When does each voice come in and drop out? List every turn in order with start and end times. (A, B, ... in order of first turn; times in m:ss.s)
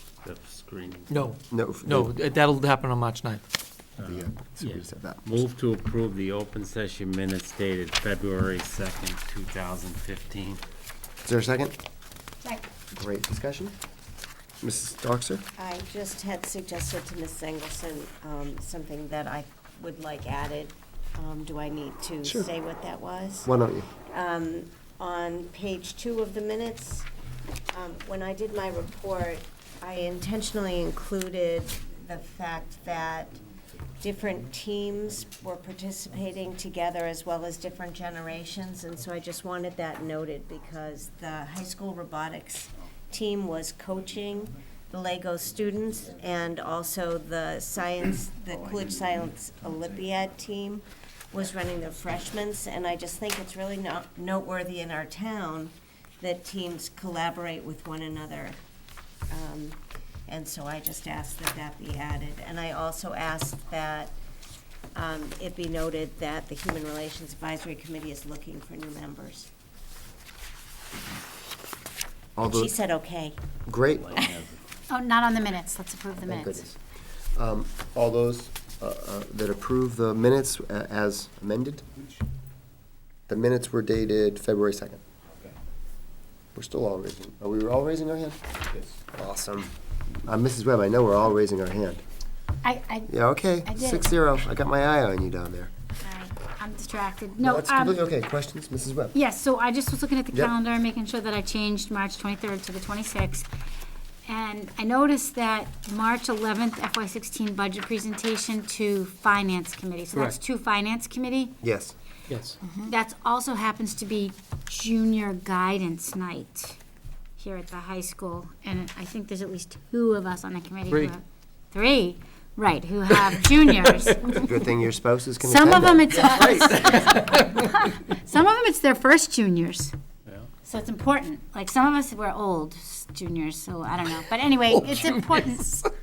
0:00.2-0:01.2 A
0:01.1-0:03.4 B
0:01.5-0:02.1 C
0:04.0-0:05.2 C
0:04.0-0:10.6 A
0:11.2-0:11.8 C
0:12.9-0:13.7 C
0:14.6-0:15.4 C
0:15.6-0:27.1 D
0:23.4-0:23.9 C
0:27.7-0:33.4 D
0:34.0-0:58.6 D
0:59.3-1:04.1 D
1:04.9-1:09.5 D
1:12.4-1:12.7 C
1:12.4-1:13.4 D
1:13.7-1:14.2 C
1:14.0-1:14.4 A
1:14.9-1:16.6 E
1:16.2-1:16.8 C
1:17.4-1:21.8 C
1:23.3-1:25.0 C
1:26.5-1:28.4 C
1:28.9-1:29.7 C
1:30.2-1:32.0 C
1:32.6-1:33.1 E
1:33.1-1:35.7 C
1:33.6-1:34.1 E
1:36.0-1:38.0 E
1:37.4-1:39.2 C
1:39.1-1:43.5 E
1:44.2-1:51.6 E
1:51.6-1:51.9 C
1:52.3-1:52.6 B
1:52.8-1:56.8 E
1:57.4-2:04.4 E
2:03.2-2:04.4 B
2:04.2-2:06.9 C
2:05.4-2:09.9 E
2:07.1-2:07.7 B
2:10.6-2:15.8 E
2:14.7-2:15.9 B